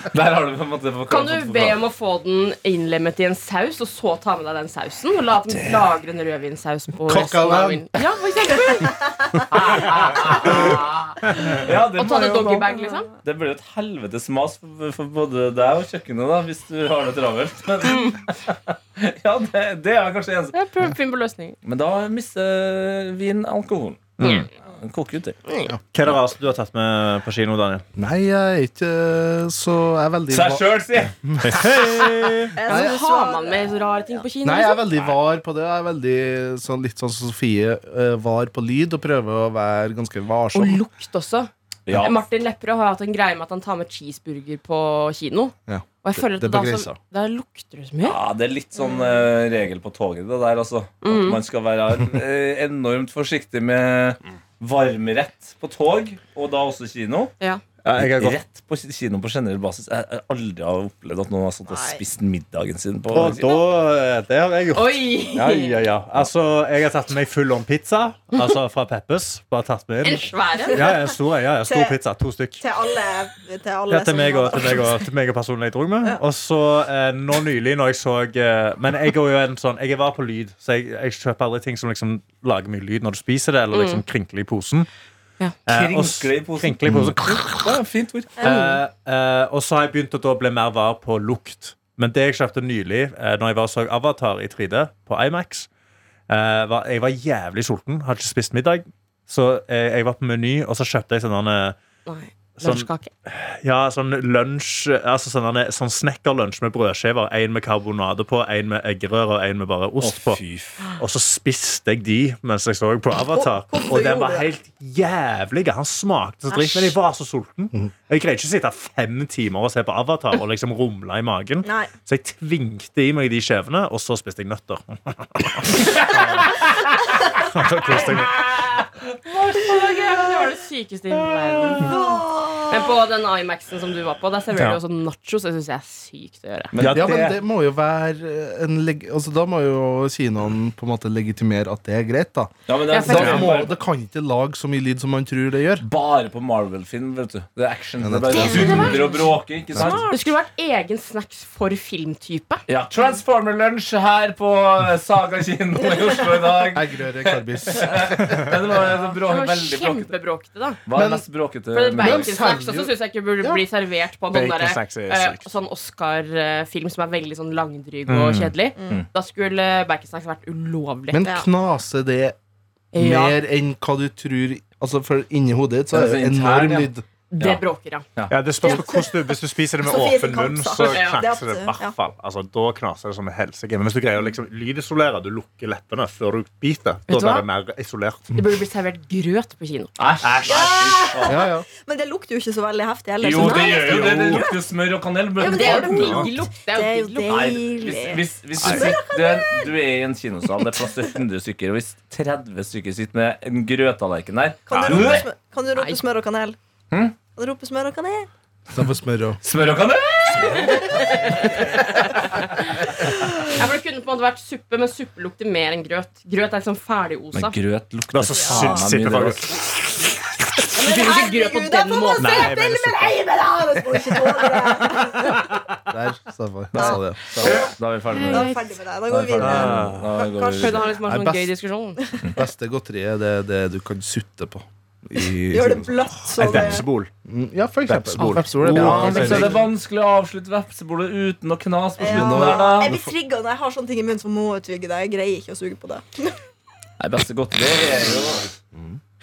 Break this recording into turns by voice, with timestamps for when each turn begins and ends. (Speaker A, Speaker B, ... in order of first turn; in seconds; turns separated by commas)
Speaker A: 0.1-1.8, Speaker B: 1.1-13.1, Speaker C: 7.1-7.8, Speaker A: 9.8-10.8, Speaker A: 11.5-12.7, Speaker A: 13.2-20.6, Speaker B: 20.5-21.6, Speaker A: 21.6-25.4, Speaker D: 24.2-24.5, Speaker B: 24.2-24.5, Speaker D: 25.9-27.8, Speaker C: 27.9-32.1, Speaker A: 30.3-31.1, Speaker D: 31.4-32.5, Speaker E: 32.5-33.8, Speaker C: 32.6-32.9, Speaker B: 32.6-34.8, Speaker C: 34.4-40.8, Speaker B: 40.5-48.2, Speaker A: 41.9-42.2, Speaker C: 45.7-47.0, Speaker A: 48.0-57.3, Speaker E: 48.8-49.1, Speaker B: 51.0-51.4, Speaker D: 57.8-58.4, Speaker A: 58.0-63.5, Speaker E: 61.7-62.0, Speaker D: 63.1-72.6, Speaker B: 64.7-65.8, Speaker B: 70.0-70.8, Speaker E: 70.7-72.0, Speaker E: 72.6-75.0, Speaker D: 73.9-84.9, Speaker B: 83.7-84.0, Speaker D: 85.7-87.8, Speaker A: 85.7-88.4, Speaker D: 88.4-95.7, Speaker B: 88.4-88.8, Speaker D: 96.3-101.8, Speaker B: 102.0-103.1, Speaker D: 102.6-110.4, Speaker A: 110.0-110.8, Speaker D: 111.0-126.5, Speaker E: 113.3-114.5, Speaker E: 116.5-116.9, Speaker E: 121.6-121.9, Speaker D: 127.4-128.3, Speaker B: 129.3-136.7, Speaker A: 129.4-129.8, Speaker E: 131.8-133.0, Speaker A: 136.7-137.3, Speaker D: 136.8-137.3, Speaker C: 136.9-145.8, Speaker A: 142.7-143.7, Speaker B: 142.9-143.5, Speaker D: 143.1-143.4, Speaker A: 145.8-150.1, Speaker C: 148.0-149.0, Speaker E: 148.3-149.2, Speaker B: 148.5-149.2, Speaker C: 149.7-150.0, Speaker B: 149.8-152.6, Speaker E: 149.8-150.1, Speaker A: 152.7-160.1, Speaker C: 156.7-158.8, Speaker B: 159.1-160.8, Speaker A: 160.8-162.4, Speaker C: 160.9-161.2, Speaker B: 161.7-171.2, Speaker C: 162.0-163.6, Speaker D: 164.3-165.5, Speaker D: 168.1-168.5, Speaker E: 168.8-169.0, Speaker C: 171.1-172.3, Speaker B: 172.9-173.4, Speaker C: 172.9-177.0, Speaker A: 175.9-177.6, Speaker B: 177.3-178.0, Speaker D: 178.3-188.3, Speaker E: 178.6-181.9, Speaker B: 180.8-181.2, Speaker B: 187.1-187.4, Speaker B: 188.3-189.9, Speaker A: 190.0-191.4, Speaker D: 190.2-190.8, Speaker E: 190.5-194.5, Speaker C: 191.3-191.7, Speaker A: 193.2-196.3, Speaker B: 193.4-193.8, Speaker D: 193.5-194.5, Speaker E: 195.4-199.7, Speaker B: 195.4-197.4, Speaker D: 196.0-196.3, Speaker A: 197.3-205.2, Speaker D: 198.6-198.9, Speaker E: 204.7-206.6, Speaker D: 204.7-205.2, Speaker B: 205.7-206.0, Speaker E: 207.3-208.3, Speaker C: 208.7-209.4, Speaker A: 209.4-211.6, Speaker B: 210.8-217.6, Speaker A: 217.3-219.4, Speaker D: 218.1-220.7, Speaker E: 218.4-218.9, Speaker E: 220.7-225.5, Speaker B: 220.8-222.5, Speaker D: 222.2-223.3, Speaker D: 224.9-225.8, Speaker C: 225.9-227.3, Speaker E: 226.8-230.9, Speaker A: 226.8-228.6, Speaker B: 228.1-228.6, Speaker A: 229.1-230.9, Speaker D: 229.4-230.1, Speaker B: 230.6-232.0, Speaker C: 231.0-231.5, Speaker C: 232.3-235.9, Speaker E: 235.5-236.9, Speaker D: 236.3-237.1, Speaker C: 237.2-239.6, Speaker D: 237.9-239.6, Speaker A: 238.6-242.9, Speaker E: 242.0-246.4, Speaker C: 242.0-243.1, Speaker A: 247.0-248.5, Speaker C: 248.7-249.0